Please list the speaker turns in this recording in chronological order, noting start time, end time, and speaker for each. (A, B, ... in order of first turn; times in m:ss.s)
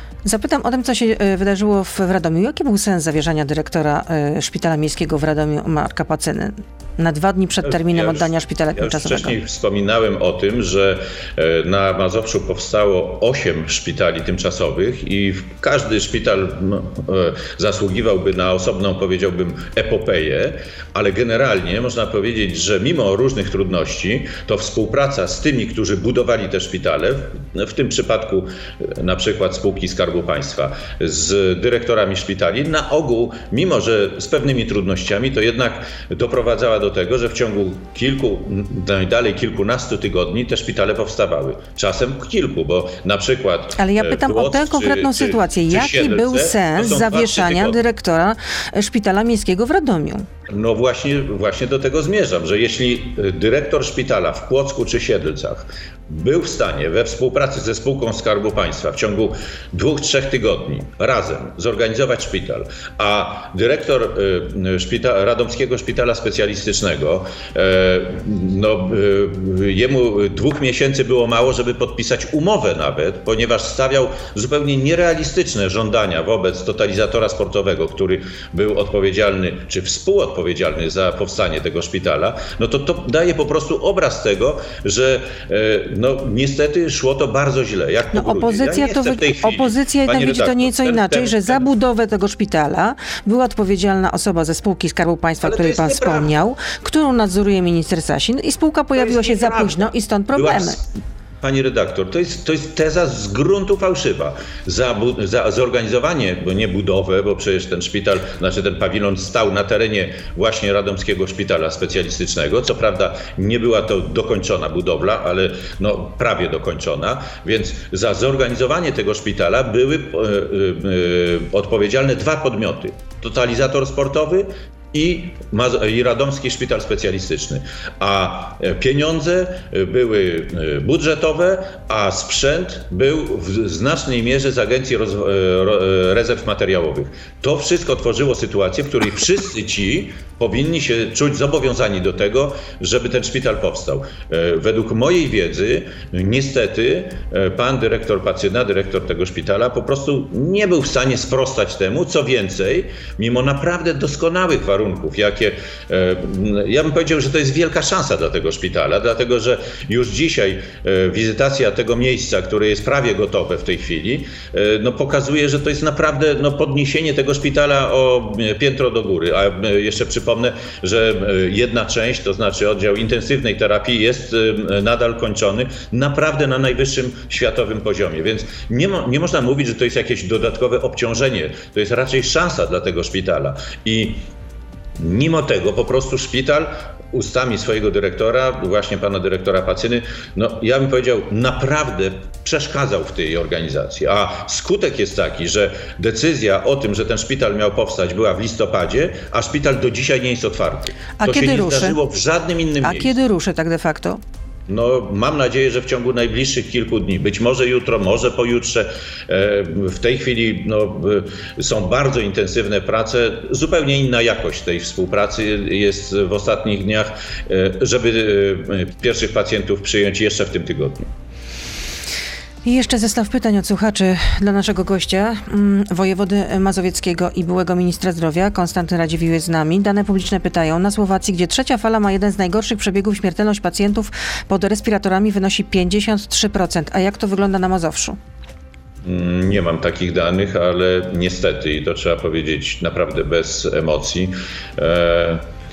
0:00.2-0:09.4 A
0:07.6-0:47.8 B
0:43.8-0:50.2 A
0:50.5-1:31.6 B
1:28.1-1:40.8 A
1:35.4-1:36.3 B
1:39.0-1:40.9 B
1:41.4-3:04.2 B
3:05.0-3:23.2 B
3:21.2-3:22.0 A
3:22.8-3:24.2 A
3:24.7-3:41.1 B
3:42.6-3:58.2 A
3:59.0-4:05.4 B